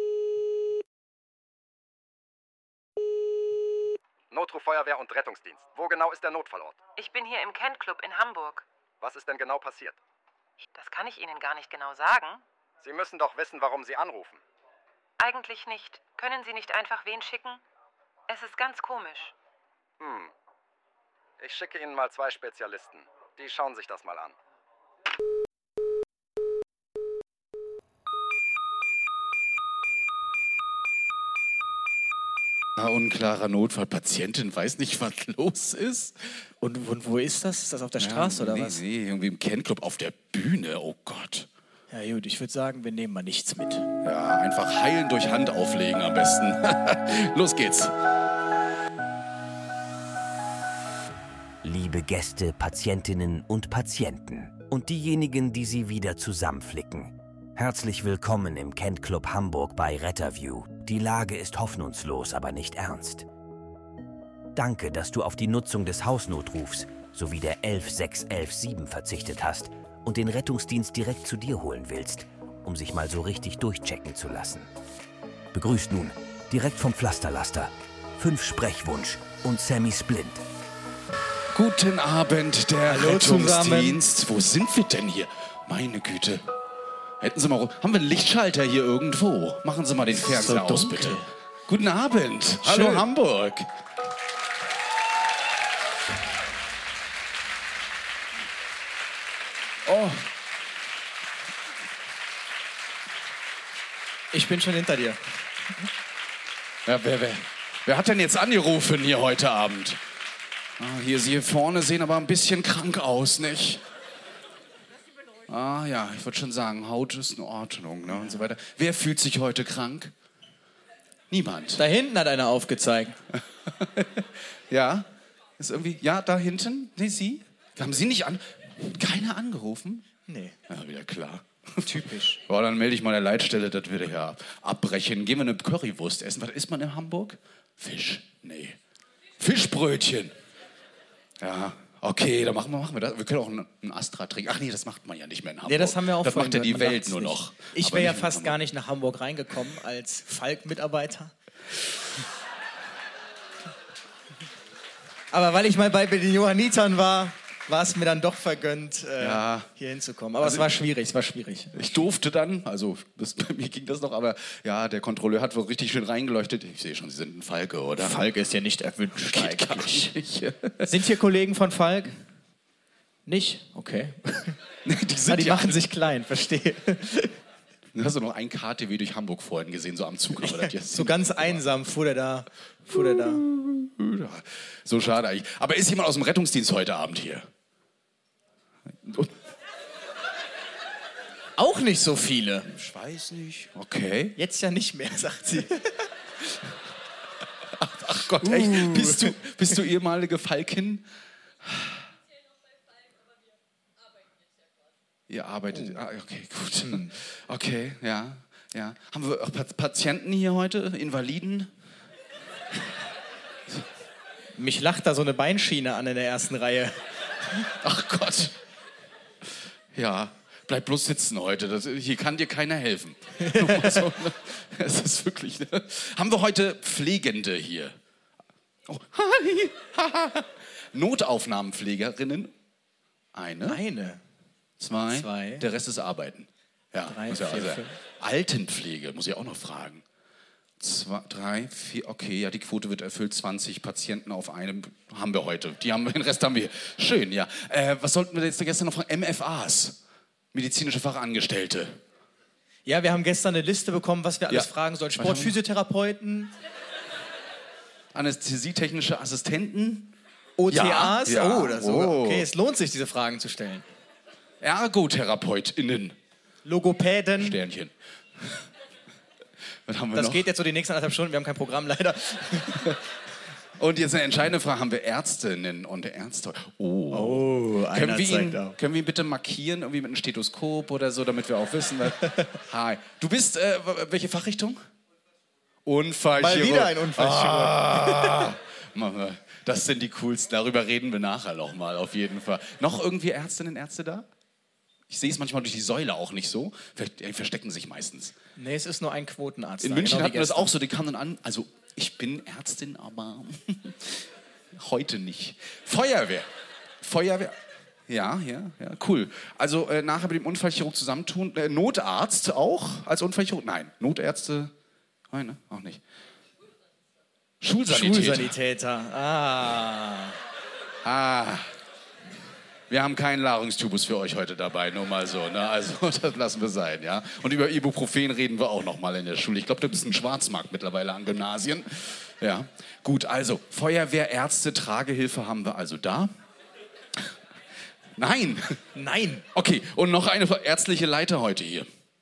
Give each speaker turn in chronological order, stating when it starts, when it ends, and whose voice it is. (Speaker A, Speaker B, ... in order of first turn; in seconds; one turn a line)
Speaker A: 4.3-6.8
Speaker B: 7.0-8.7
Speaker A: 9.0-10.0
Speaker B: 10.7-12.4
Speaker A: 12.8-14.4
Speaker B: 15.2-17.6
Speaker B: 18.3-19.3
Speaker A: 20.0-20.3
Speaker A: 21.4-24.4
Speaker C: 32.8-36.4
Speaker D: 36.6-38.8
Speaker C: 38.0-41.5
Speaker D: 41.9-43.9
Speaker C: 44.0-47.9
Speaker E: 51.6-63.3
Speaker E: 64.5-74.7
Speaker E: 75.5-80.4
Speaker C: 81.5-86.4
Speaker D: 82.9-84.0
Speaker C: 87.2-93.7
Speaker D: 90.2-91.3
Speaker D: 92.6-93.0
Speaker C: 99.8-100.3
Speaker D: 104.3-105.2
Speaker C: 106.8-110.0
Speaker C: 110.8-113.8
Speaker C: 115.5-120.1
Speaker D: 118.1-118.4
Speaker C: 121.3-121.8
Speaker D: 121.8-123.2
Speaker C: 123.3-130.1
Speaker D: 130.3-130.5
Speaker C: 130.7-138.8
Speaker D: 131.8-132.4
Speaker C: 139.4-140.3
Speaker C: 141.4-148.6
Speaker D: 145.7-151.3
Speaker D: 155.3-161.7
Speaker C: 159.2-159.7
Speaker C: 160.4-160.6
Speaker C: 161.7-168.2
Speaker D: 168.0-170.1
Speaker C: 169.3-170.9
Speaker D: 170.8-172.2
Speaker D: 173.3-174.6
Speaker C: 174.8-175.8
Speaker D: 175.3-177.4
Speaker C: 177.9-181.6
Speaker D: 180.4-183.4
Speaker C: 182.9-187.5
Speaker C: 188.9-189.4
Speaker D: 191.6-192.7
Speaker C: 192.7-194.3
Speaker D: 194.4-196.1
Speaker C: 196.4-196.7
Speaker C: 197.7-201.1
Speaker D: 198.4-199.4
Speaker C: 201.6-202.1
Speaker C: 205.3-211.7
Speaker D: 205.7-206.0
Speaker D: 206.8-207.1
Speaker D: 214.6-217.7
Speaker C: 217.8-218.5
Speaker C: 219.9-227.9
Speaker D: 223.4-224.1
Speaker C: 228.9-232.5
Speaker C: 233.3-233.8
Speaker D: 233.7-234.2
Speaker C: 234.8-240.0
Speaker D: 235.1-235.7
Speaker D: 237.1-237.9
Speaker C: 240.8-250.0
Speaker C: 250.5-252.0
Speaker D: 252.8-256.5
Speaker C: 254.5-255.6
Speaker C: 258.1-260.1
Speaker D: 260.6-263.9
Speaker C: 260.7-262.5
Speaker C: 264.6-266.2
Speaker D: 266.6-267.6
Speaker C: 267.4-268.7
Speaker C: 269.9-270.4
Speaker D: 270.1-273.0
Speaker C: 273.8-284.8
Speaker D: 277.1-278.8
Speaker C: 285.8-294.3
Speaker D: 286.4-288.5
Speaker C: 295.1-298.4
Speaker D: 298.6-300.7
Speaker C: 299.8-306.5
Speaker C: 307.0-314.7
Speaker C: 315.3-316.0
Speaker C: 317.6-318.5
Speaker D: 317.9-320.4
Speaker C: 321.0-321.7
Speaker C: 322.9-336.3
Speaker C: 338.1-338.8
Speaker D: 338.9-339.4
Speaker C: 339.5-341.9